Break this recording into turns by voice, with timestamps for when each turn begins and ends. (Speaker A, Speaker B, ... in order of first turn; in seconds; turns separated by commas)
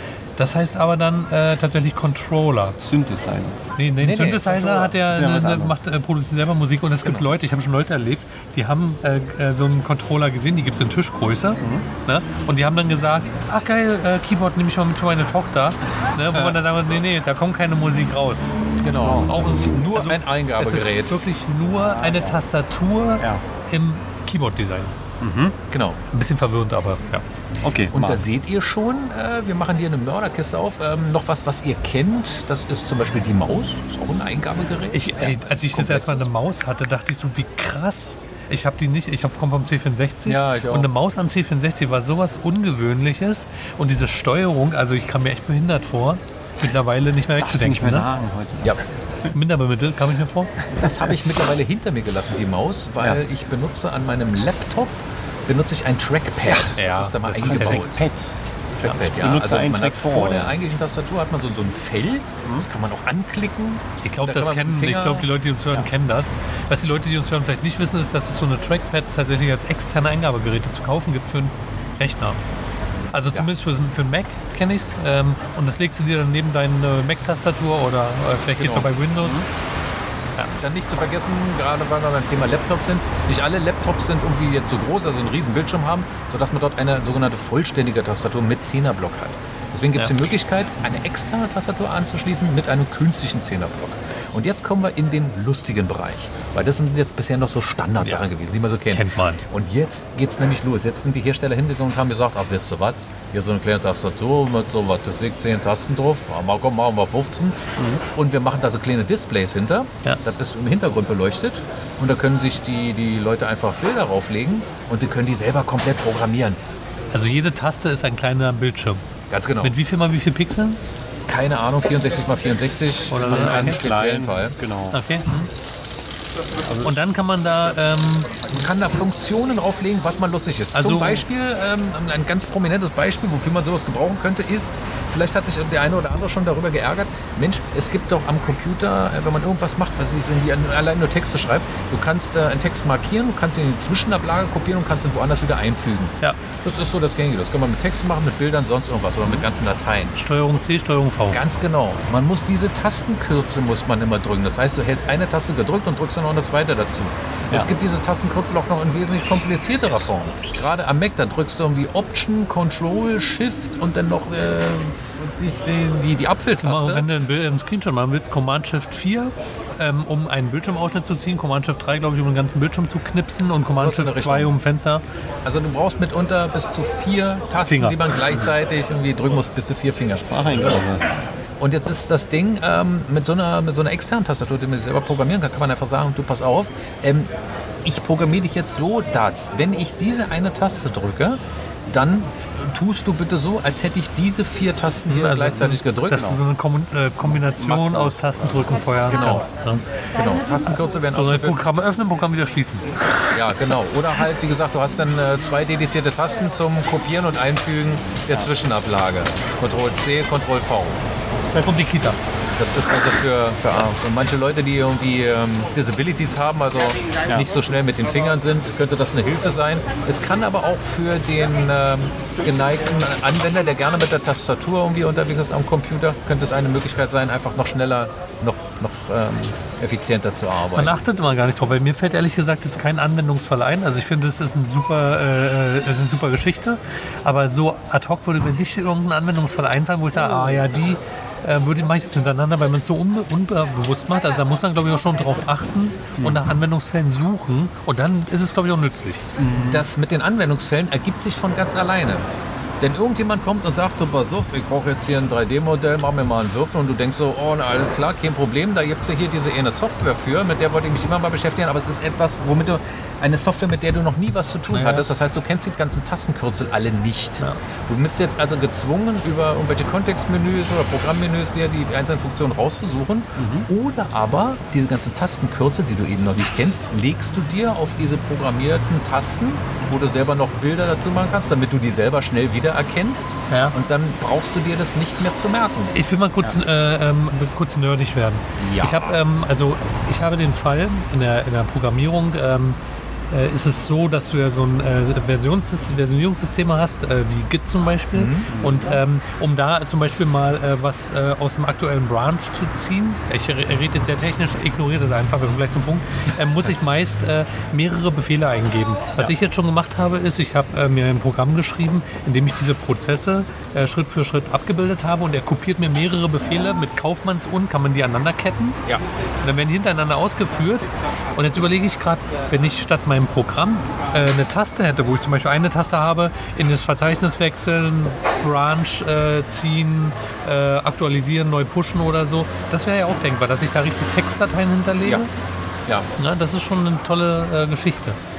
Speaker A: 0.4-2.8, Speaker B: 2.8-3.6, Speaker A: 3.8-18.5, Speaker C: 4.0-4.9, Speaker B: 4.9-5.8, Speaker B: 11.6-11.9, Speaker C: 18.8-21.2, Speaker B: 18.9-19.7, Speaker A: 19.2-24.9, Speaker B: 21.7-22.4, Speaker B: 25.2-25.6, Speaker C: 25.7-26.0, Speaker A: 26.1-27.2, Speaker B: 27.6-28.2, Speaker C: 27.9-36.3, Speaker A: 34.9-48.1, Speaker C: 40.2-40.9, Speaker B: 47.4-48.8, Speaker A: 49.3-50.5, Speaker C: 50.8-54.9, Speaker C: 55.5-58.0, Speaker A: 56.7-57.9, Speaker B: 57.4-58.4, Speaker C: 58.8-65.3, Speaker B: 59.0-60.6, Speaker A: 64.0-72.4, Speaker A: 73.1-79.5, Speaker C: 78.6-78.9, Speaker B: 79.2-79.4, Speaker C: 80.6-107.6, Speaker A: 98.9-99.4, Speaker C: 108.1-116.6, Speaker A: 117.1-119.0, Speaker C: 119.3-119.8, Speaker A: 119.6-120.8, Speaker C: 121.3-124.5, Speaker A: 123.1-123.8, Speaker B: 123.2-125.0, Speaker A: 124.9-125.5, Speaker A: 126.8-128.3, Speaker C: 128.5-150.2, Speaker A: 130.7-131.2, Speaker A: 150.2-151.4, Speaker C: 151.3-167.1, Speaker A: 166.5-175.0, Speaker C: 173.7-174.6, Speaker C: 175.4-180.7, Speaker A: 177.7-178.0, Speaker B: 180.2-181.1, Speaker C: 181.6-187.3, Speaker C: 187.8-196.4, Speaker A: 195.1-199.8, Speaker B: 197.2-198.9, Speaker C: 199.1-199.5, Speaker C: 200.1-201.6, Speaker A: 200.7-202.9, Speaker C: 203.3-211.0, Speaker A: 211.5-212.2, Speaker C: 212.6-230.9, Speaker A: 230.7-249.2, Speaker B: 249.4-249.9, Speaker C: 249.6-252.2, Speaker C: 252.8-285.9, Speaker A: 264.7-265.1, Speaker B: 273.4-273.7, Speaker A: 283.5-283.7, Speaker A: 285.9-292.8, Speaker C: 288.6-289.2, Speaker A: 293.3-318.8, Speaker C: 298.1-298.5, Speaker B: 298.5-299.0, Speaker A: 319.4-335.3, Speaker A: 336.2-338.2